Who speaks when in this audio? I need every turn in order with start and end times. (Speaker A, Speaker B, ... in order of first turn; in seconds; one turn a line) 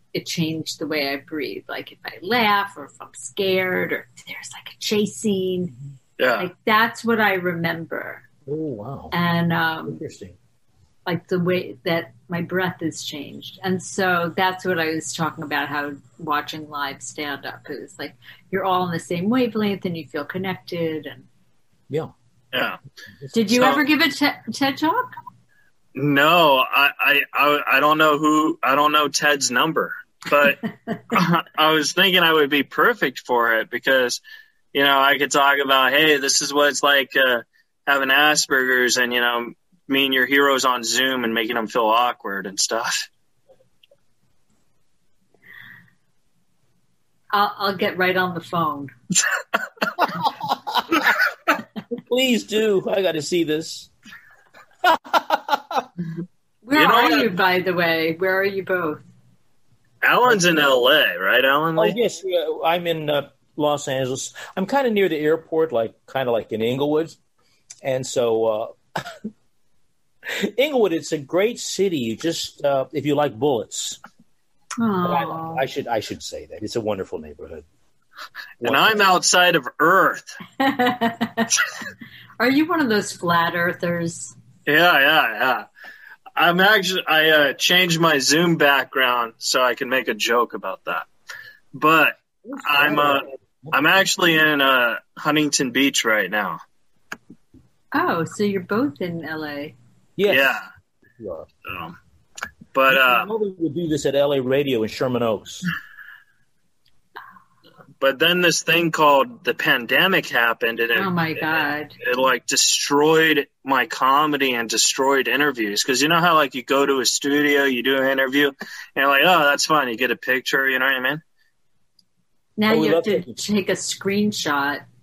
Speaker A: 0.1-5.7
Speaker B: 6.2-6.5
Speaker A: 6.4-8.2
Speaker C: 8.5-9.2
Speaker A: 9.1-10.0
Speaker C: 9.9-10.4
Speaker A: 11.1-21.3
Speaker B: 22.5-22.8
Speaker C: 23.2-23.8
Speaker A: 23.3-25.1
Speaker B: 23.5-23.8
Speaker B: 25.9-30.6
Speaker B: 31.1-34.2
Speaker B: 34.7-43.1
Speaker A: 47.3-48.9
Speaker C: 50.5-50.8
Speaker C: 51.9-53.9
Speaker C: 54.8-55.9
Speaker A: 56.6-59.1
Speaker B: 56.8-57.4
Speaker B: 60.0-62.0
Speaker C: 61.8-67.2
Speaker C: 67.8-68.8
Speaker C: 70.3-74.0
Speaker A: 74.8-75.6
Speaker C: 75.0-77.7
Speaker C: 78.6-79.0
Speaker B: 78.6-80.4
Speaker A: 80.6-81.5
Speaker A: 82.4-84.3
Speaker B: 84.7-85.7
Speaker B: 86.4-91.1
Speaker B: 91.7-96.6
Speaker C: 92.5-94.1
Speaker A: 97.9-99.8
Speaker C: 100.2-100.6
Speaker B: 100.3-100.7
Speaker C: 101.2-101.5
Speaker B: 101.7-101.9
Speaker B: 102.7-103.3
Speaker C: 102.9-105.7
Speaker B: 108.0-121.2
Speaker A: 111.0-112.0
Speaker A: 122.6-124.8
Speaker C: 122.7-123.4